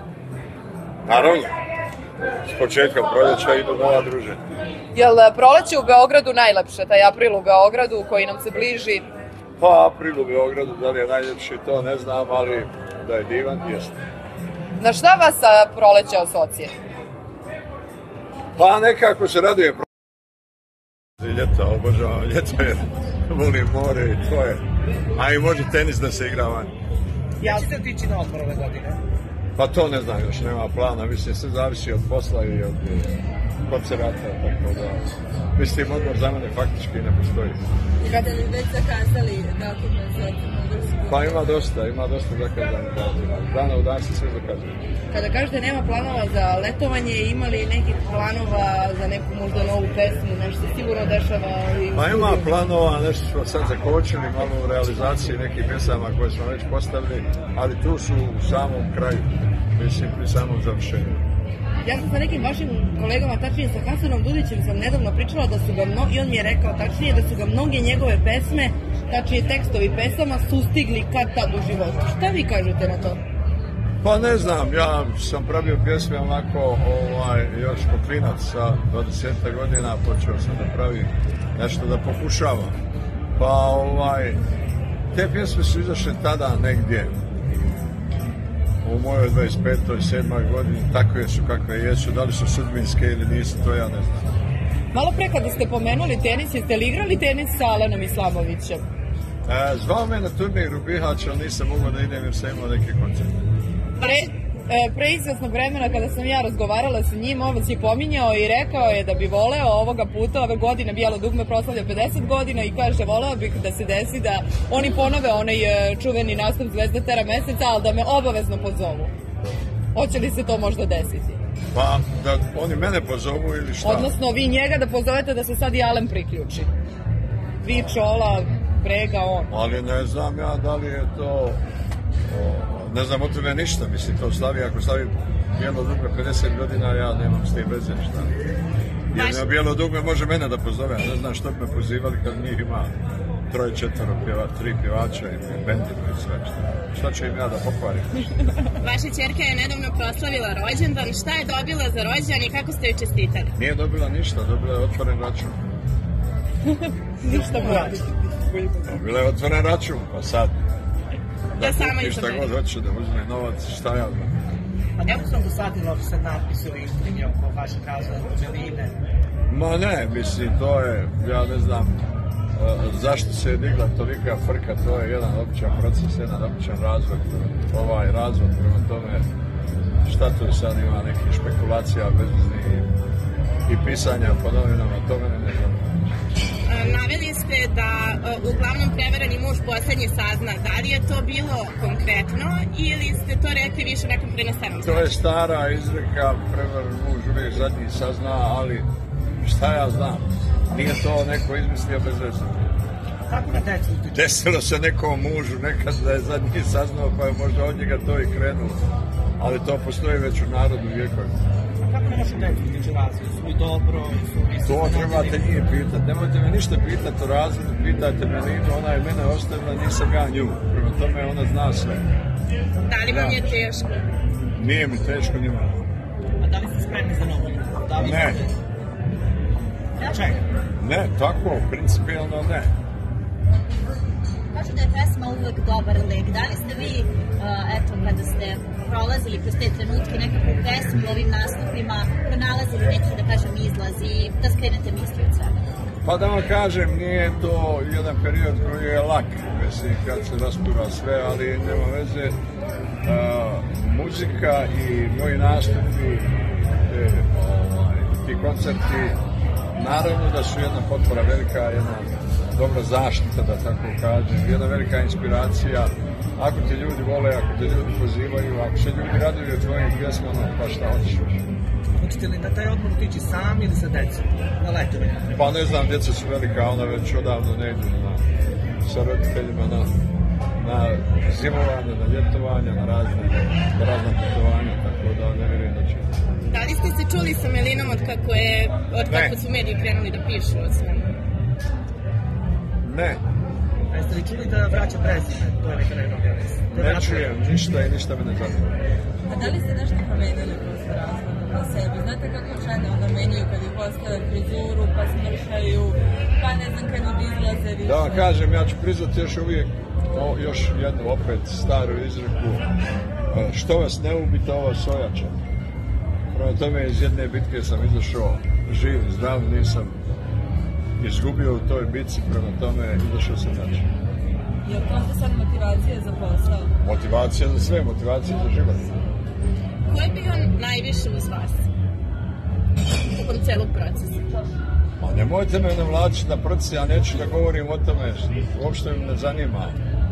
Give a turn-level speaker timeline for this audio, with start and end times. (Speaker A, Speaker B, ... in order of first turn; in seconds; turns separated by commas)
Speaker A: 1.0-1.5, Speaker A: 2.5-4.4, Speaker B: 4.9-9.1, Speaker A: 9.6-13.9, Speaker B: 14.8-16.7, Speaker A: 18.6-19.9, Speaker A: 21.2-24.6, Speaker A: 25.1-26.7, Speaker C: 27.4-29.0, Speaker A: 29.6-33.1, Speaker A: 33.7-35.0, Speaker A: 35.5-37.6, Speaker D: 38.0-41.4, Speaker A: 41.1-44.8, Speaker E: 45.1-52.5, Speaker A: 51.9-61.2, Speaker E: 61.8-73.2, Speaker A: 74.0-82.8, Speaker A: 83.4-84.4, Speaker A: 85.1-87.1, Speaker A: 88.8-94.3, Speaker B: 94.9-98.8, Speaker A: 99.5-103.4, Speaker F: 104.0-104.3, Speaker B: 104.0-119.1, Speaker B: 119.9-121.4, Speaker A: 121.7-124.1, Speaker B: 123.8-126.7, Speaker B: 127.6-129.5, Speaker A: 129.5-131.6, Speaker A: 132.3-138.3, Speaker A: 139.1-142.9, Speaker F: 139.1-139.5, Speaker A: 143.5-148.3, Speaker F: 148.8-153.5, Speaker A: 153.6-155.6, Speaker B: 156.7-158.8, Speaker C: 157.2-158.1, Speaker A: 158.8-160.5, Speaker A: 161.6-164.4, Speaker F: 161.6-162.5, Speaker C: 165.0-169.0, Speaker A: 169.5-172.0, Speaker A: 172.6-179.2, Speaker A: 180.0-182.9, Speaker A: 183.7-186.2, Speaker F: 186.7-195.1, Speaker A: 194.8-198.9, Speaker A: 199.4-202.7, Speaker C: 203.3-204.3, Speaker A: 204.1-208.8, Speaker A: 209.4-211.3, Speaker C: 211.8-215.5, Speaker A: 214.6-222.0, Speaker F: 222.8-224.1, Speaker A: 223.1-223.4, Speaker A: 224.5-225.8, Speaker C: 226.4-228.5, Speaker A: 228.0-228.4, Speaker G: 230.0-230.3, Speaker C: 230.0-230.4, Speaker A: 230.8-232.7, Speaker G: 234.5-245.6, Speaker A: 246.0-252.3, Speaker A: 253.0-259.2, Speaker A: 259.7-271.4, Speaker C: 272.0-275.3, Speaker A: 275.3-278.2, Speaker A: 278.8-279.9, Speaker A: 280.6-286.2, Speaker F: 286.4-291.1, Speaker A: 289.1-289.4, Speaker A: 292.8-293.2, Speaker C: 293.9-297.4, Speaker A: 296.7-298.8, Speaker D: 299.3-308.3, Speaker A: 307.8-312.6, Speaker A: 313.3-315.4, Speaker A: 316.3-319.9, Speaker A: 321.0-323.9, Speaker D: 324.6-326.7, Speaker A: 326.8-328.9, Speaker F: 329.9-331.7, Speaker F: 333.1-334.2, Speaker A: 335.0-339.8